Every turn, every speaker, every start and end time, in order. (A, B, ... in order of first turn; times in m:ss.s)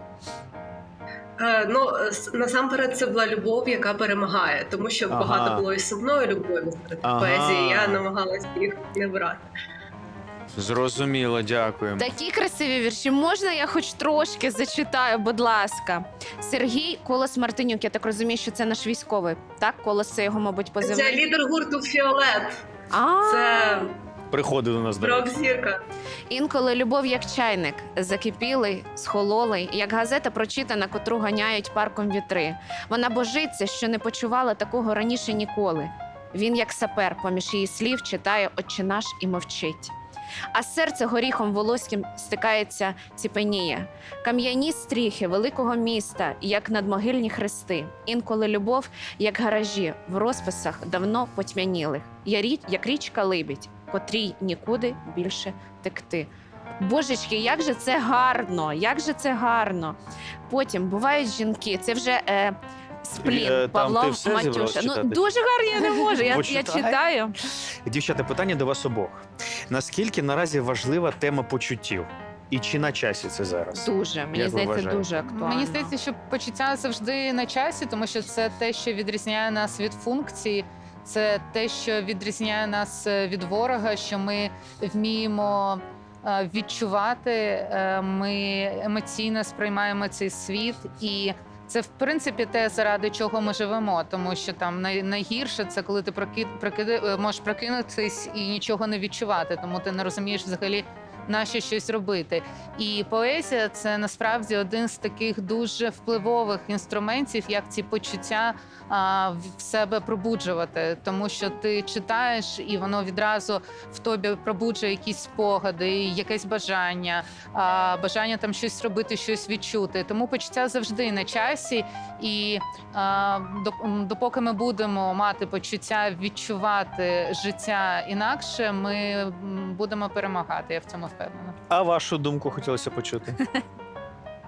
0:01.4-0:09.4 A
0:05.1-0:05.6 B
0:07.0-0:08.0 B
0:10.5-0:12.1 B
0:12.0-0:21.2 C
0:20.8-0:22.5 A
0:22.9-0:23.9 C
0:23.2-0:23.9 A
0:24.3-0:25.3 B
0:25.0-0:25.8 A
0:26.3-0:39.9 C
0:40.5-1:00.0 C
1:00.5-1:07.3 C
1:03.2-1:07.0 B
1:07.8-1:15.1 B
1:13.7-1:15.9 C
1:15.2-2:11.6 D
2:11.7-2:13.4 B